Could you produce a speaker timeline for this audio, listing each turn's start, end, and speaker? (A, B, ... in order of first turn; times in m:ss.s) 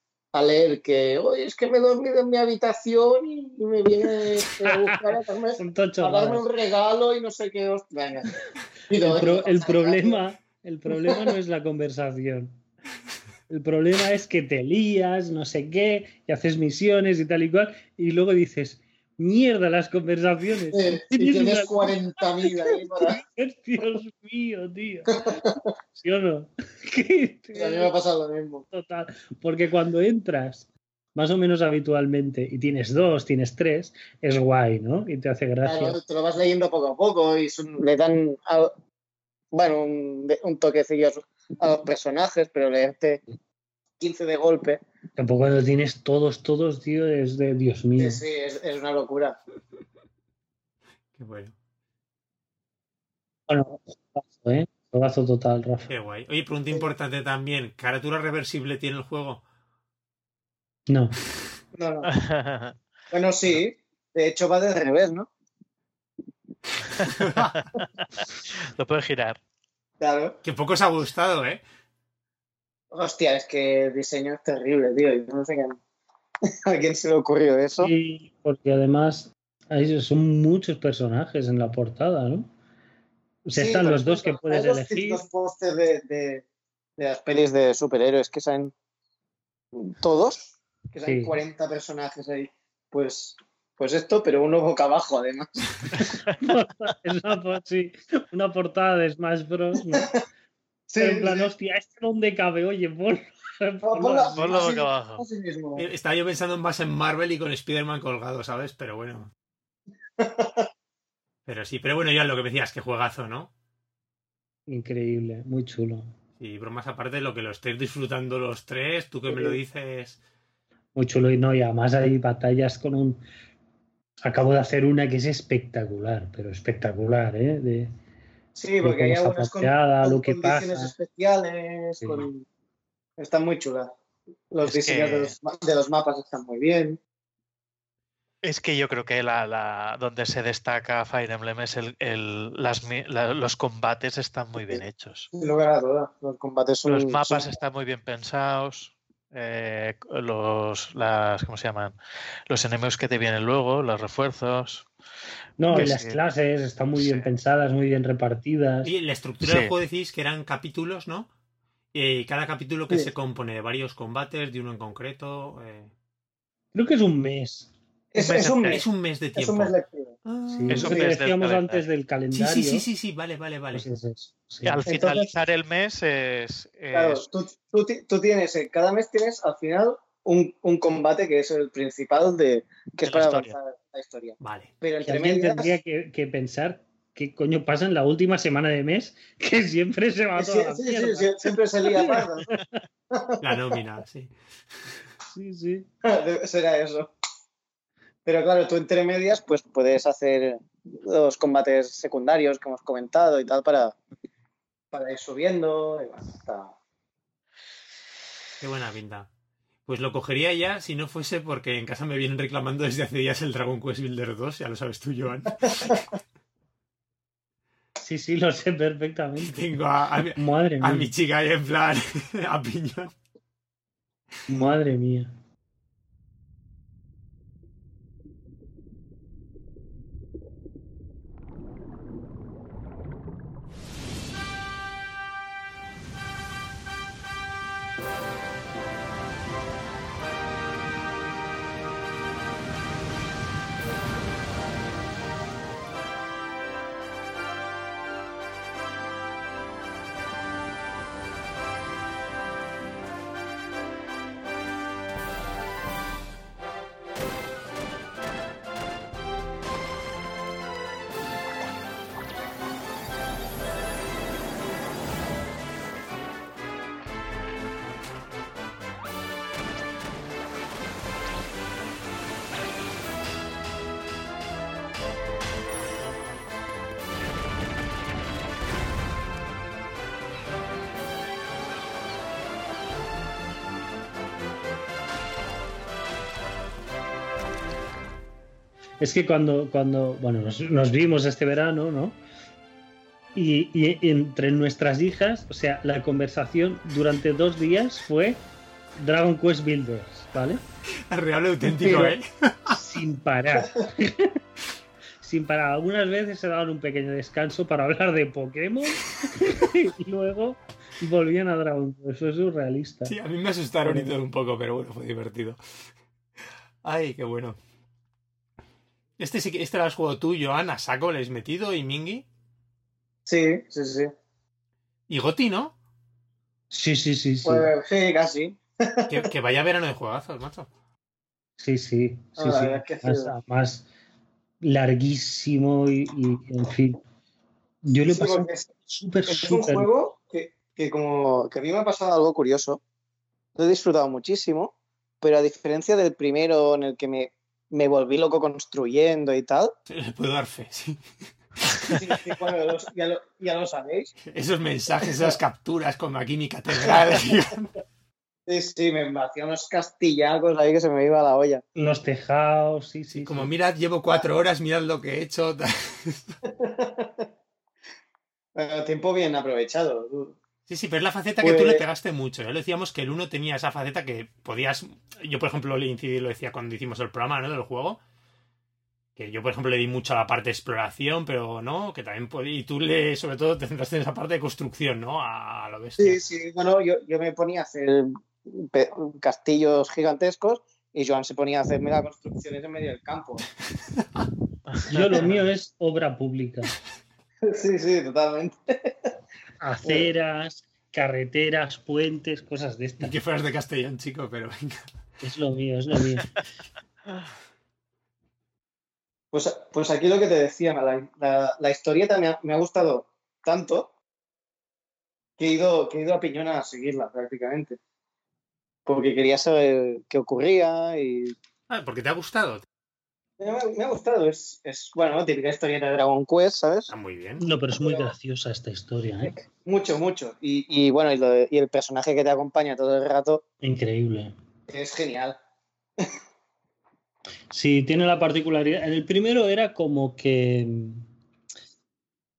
0:00.3-0:08.3 A
0:04.6-0:06.4 B
0:08.9-0:10.2 A
0:09.0-0:12.6 B
0:10.9-0:11.3 A
0:13.5-0:25.4 B
0:20.7-0:23.2 A
0:25.3-0:25.5 A
0:25.9-0:27.9 B
0:27.6-0:28.6 A
0:28.7-0:36.0 B
0:35.6-0:38.7 A
0:39.5-0:43.2 A
0:44.0-0:44.8 A
0:45.2-0:48.2 B
0:48.0-0:49.4 A
0:51.2-0:51.5 C
0:53.5-0:55.9 B
0:55.9-0:59.4 C
1:00.9-1:01.2 B
1:01.7-1:02.1 A
1:02.0-1:02.8 D
1:03.1-1:05.3 A
1:07.1-1:07.6 C
1:07.8-1:09.4 D
1:10.0-1:10.4 A
1:10.4-1:11.6 C
1:12.9-1:15.8 A
1:16.7-1:17.9 A
1:17.8-1:22.5 B
1:23.4-1:25.2 B
1:23.6-1:26.4 A
1:27.0-1:28.7 A
1:29.7-1:35.8 A
1:31.0-1:31.4 B
1:35.9-1:36.3 D
1:36.4-1:40.1 B
1:40.9-1:41.5 A
1:41.0-1:44.7 B
1:43.9-1:45.9 A
1:44.3-1:45.2 D
1:45.8-1:49.3 C
1:50.2-1:50.7 A
1:51.4-1:53.5 C
1:54.7-1:56.1 B
1:56.4-2:00.2 C
1:59.3-1:59.6 A
2:00.9-2:03.2 B
2:04.2-2:07.9 B
2:08.5-2:12.4 A
2:08.8-2:10.9 B
2:12.0-2:12.3 B
2:13.2-2:13.9 A
2:14.5-2:17.0 A
2:14.6-2:15.4 D
2:18.4-2:25.3 D
2:25.3-2:27.5 A
2:26.8-2:32.0 D
2:32.5-2:34.9 D
2:35.6-2:38.9 B
2:35.7-2:36.2 D
2:37.0-2:37.3 D
2:38.8-2:41.3 C
2:39.4-2:39.7 D
2:41.9-2:45.9 C
2:46.7-2:47.7 B
2:48.1-2:50.1 A
2:48.2-2:48.8 D
2:48.5-2:49.7 C
2:50.2-2:51.0 C
2:50.5-2:52.8 B
2:50.7-2:51.8 D
2:50.8-2:51.1 A
2:52.3-2:53.8 C
2:53.7-2:54.8 B
2:54.6-2:57.3 D
2:54.8-2:55.3 A
2:56.9-3:05.7 A
3:03.0-3:03.6 D
3:04.4-3:04.7 C
3:05.0-3:11.3 B
3:10.4-3:12.5 A
3:11.9-3:12.8 B
3:13.1-3:13.4 A
3:13.4-3:14.3 C
3:15.3-3:15.9 B
3:16.0-3:17.1 A
3:18.2-3:24.0 A
3:24.9-3:26.7 A
3:28.6-3:29.3 C
3:29.8-3:36.1 C
3:38.0-3:39.6 B
3:39.4-3:43.2 C
3:40.4-3:41.1 B
3:44.5-3:45.3 B
4:49.0-4:52.2 B
4:53.3-4:58.4 B
4:59.0-5:00.6 B
5:01.1-5:02.8 C
5:01.8-5:02.1 A
5:02.7-5:04.4 B
5:05.2-5:13.1 B
5:13.0-5:15.6 C
5:16.8-5:17.6 C
5:19.2-5:22.2 C
5:23.2-5:24.1 A
5:25.1-5:25.7 C
5:26.7-5:27.7 B
5:27.4-5:29.3 A
5:29.1-5:30.7 C
5:31.6-5:33.8 B
5:32.4-5:33.3 A
5:34.6-5:37.0 B
5:37.8-5:39.9 B
5:38.1-5:38.7 A
5:39.3-5:42.8 A
5:43.6-5:49.7 A
5:49.9-5:51.0 C
5:51.6-5:52.4 C
5:51.8-5:54.1 A
5:54.3-5:57.7 C
5:55.0-5:55.4 A
5:56.8-5:57.2 A
5:58.5-6:01.6 A
6:01.8-6:03.5 B
6:03.1-6:06.4 C
6:06.5-6:07.2 A
6:08.5-6:10.4 A
6:10.7-6:18.0 C
6:11.4-6:11.8 A
6:19.2-6:26.2 C
6:26.0-6:33.4 A
6:34.8-6:36.7 B
6:37.4-6:39.1 A
6:39.6-6:43.2 B
6:43.0-6:44.9 C
6:45.2-6:46.3 B
6:49.3-6:53.9 A
6:55.4-6:57.8 A
6:58.8-7:01.3 A
7:01.7-7:02.6 C
7:03.4-7:06.9 A
7:06.9-7:07.4 C
7:07.4-7:09.3 B
7:07.7-7:08.1 A
7:09.2-7:13.4 A
7:13.6-7:14.3 B
7:14.7-7:15.4 A
7:17.5-7:21.0 B